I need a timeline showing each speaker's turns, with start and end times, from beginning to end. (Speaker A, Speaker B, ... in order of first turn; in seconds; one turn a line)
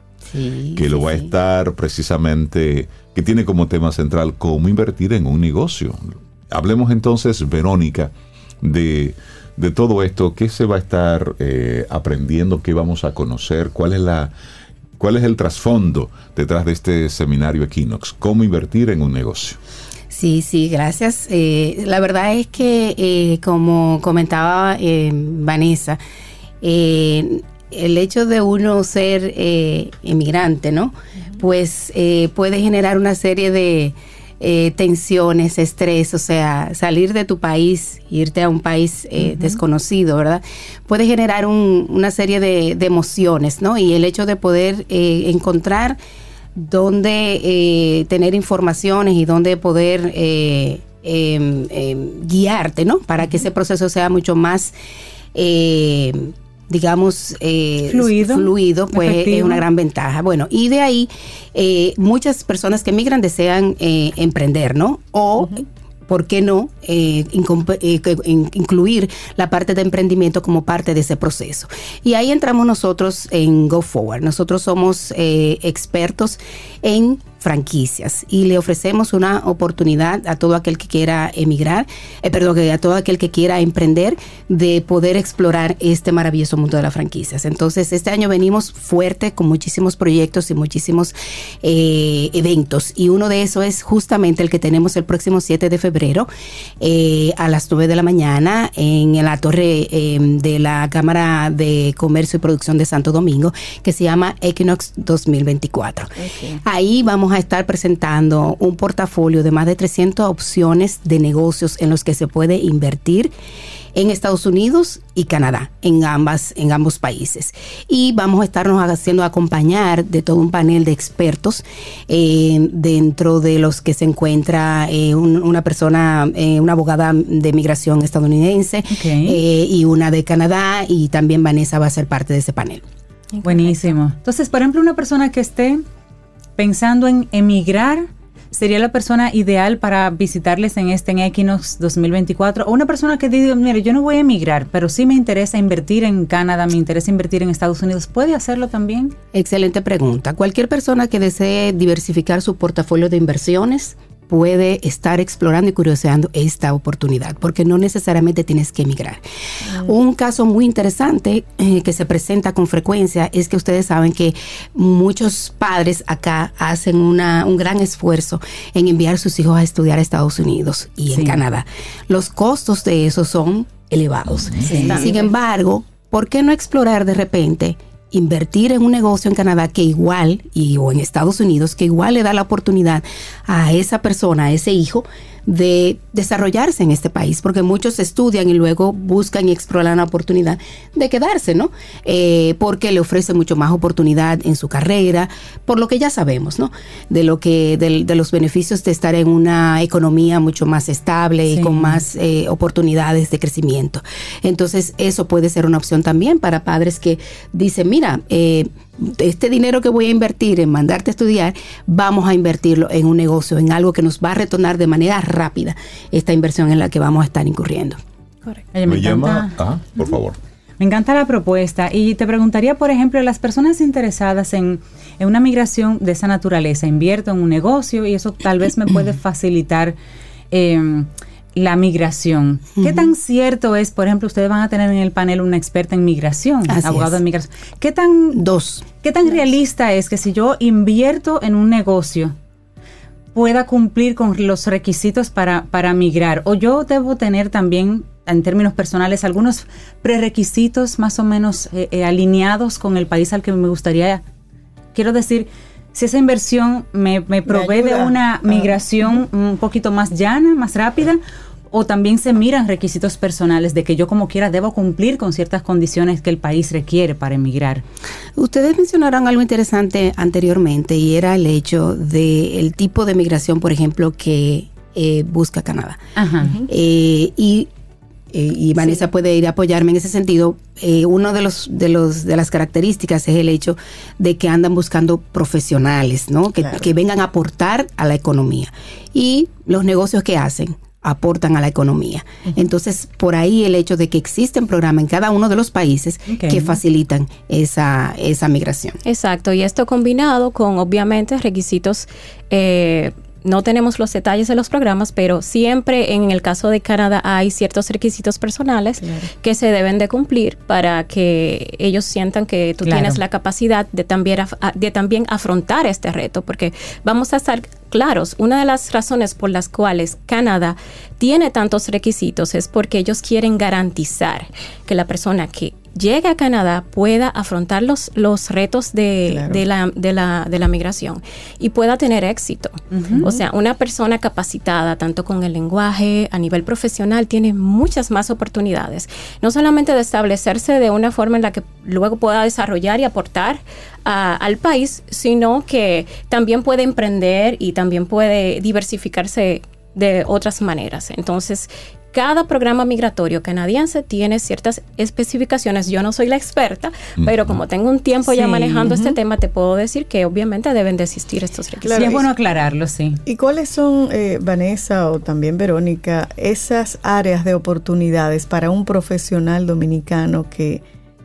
Speaker A: 0.3-1.3
Speaker B: 0.8-14.3
Speaker B: 15.0-19.6
Speaker A: 20.1-26.0
Speaker A: 26.6-46.0
Speaker C: 39.2-39.6
Speaker A: 46.5-54.7
Speaker A: 55.3-96.3
Speaker D: 57.9-59.6
Speaker A: 96.8-113.3
Speaker C: 106.2-106.6
Speaker A: 113.9-132.8
Speaker D: 128.9-129.4
Speaker E: 133.3-133.9
Speaker D: 133.4-135.8
Speaker D: 136.6-149.1
Speaker A: 149.3-159.2
Speaker A: 159.7-218.0
Speaker D: 171.1-171.4
Speaker B: 174.2-174.7
Speaker C: 174.7-175.2
Speaker E: 174.8-175.3
Speaker D: 201.5-202.0
Speaker D: 218.7-219.5
Speaker B: 218.8-220.4
Speaker D: 220.8-229.9
Speaker D: 230.5-238.4
Speaker A: 232.8-233.1
Speaker A: 236.7-237.2
Speaker A: 238.3-238.9
Speaker D: 239.0-242.3
Speaker D: 243.3-254.2
Speaker D: 254.9-267.8
Speaker C: 257.5-258.7
Speaker A: 268.4-276.0
Speaker D: 276.1-276.5
Speaker A: 276.6-277.7
Speaker A: 278.3-299.0
Speaker C: 286.6-286.9
Speaker D: 296.3-296.8
Speaker E: 299.0-362.2
Speaker C: 309.0-309.3
Speaker D: 312.8-313.2
Speaker C: 329.3-329.6
Speaker D: 332.9-333.3
Speaker B: 357.2-357.6
Speaker D: 358.3-359.1
Speaker C: 361.8-362.2
Speaker D: 361.9-363.2
Speaker C: 363.2-370.8